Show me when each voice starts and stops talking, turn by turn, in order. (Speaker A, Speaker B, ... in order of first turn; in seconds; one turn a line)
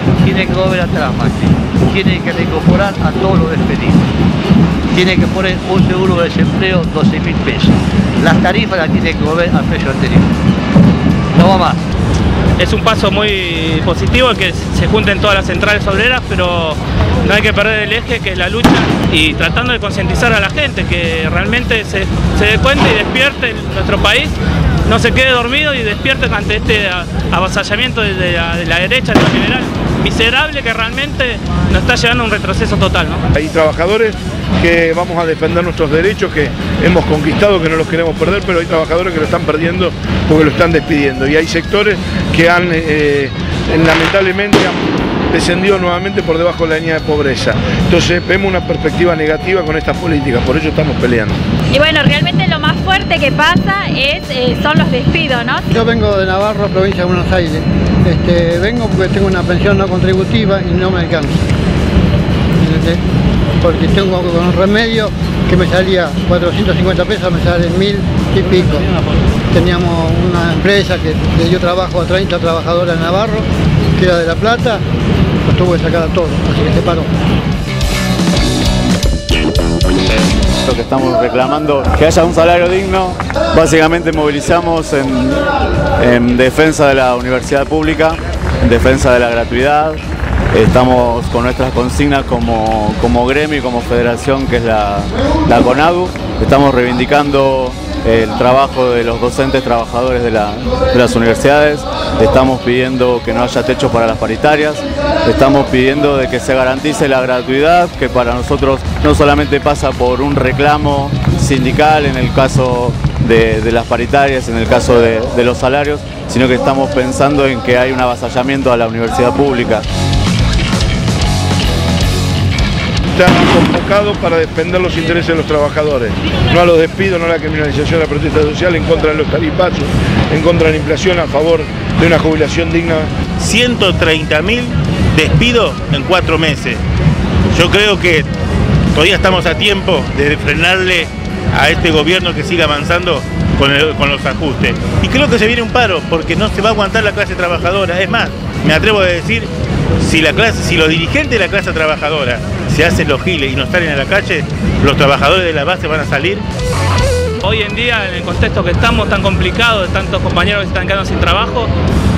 Speaker A: 0.2-4.0
Speaker A: 4.9-10.3
Speaker A: 11.3-11.9
Speaker B: 12.6-33.2
Speaker C: 33.3-51.4
Speaker D: 51.7-55.6
Speaker E: 55.7-61.4
Speaker E: 62.6-63.0
Speaker E: 63.6-68.9
Speaker E: 69.5-74.8
Speaker E: 75.4-77.1
Speaker F: 80.6-90.0
Speaker F: 90.5-119.8
Speaker C: 123.2-133.1
Speaker G: 133.4-136.8
Speaker G: 137.5-138.3
Speaker G: 138.9-156.4
Speaker B: 157.4-161.7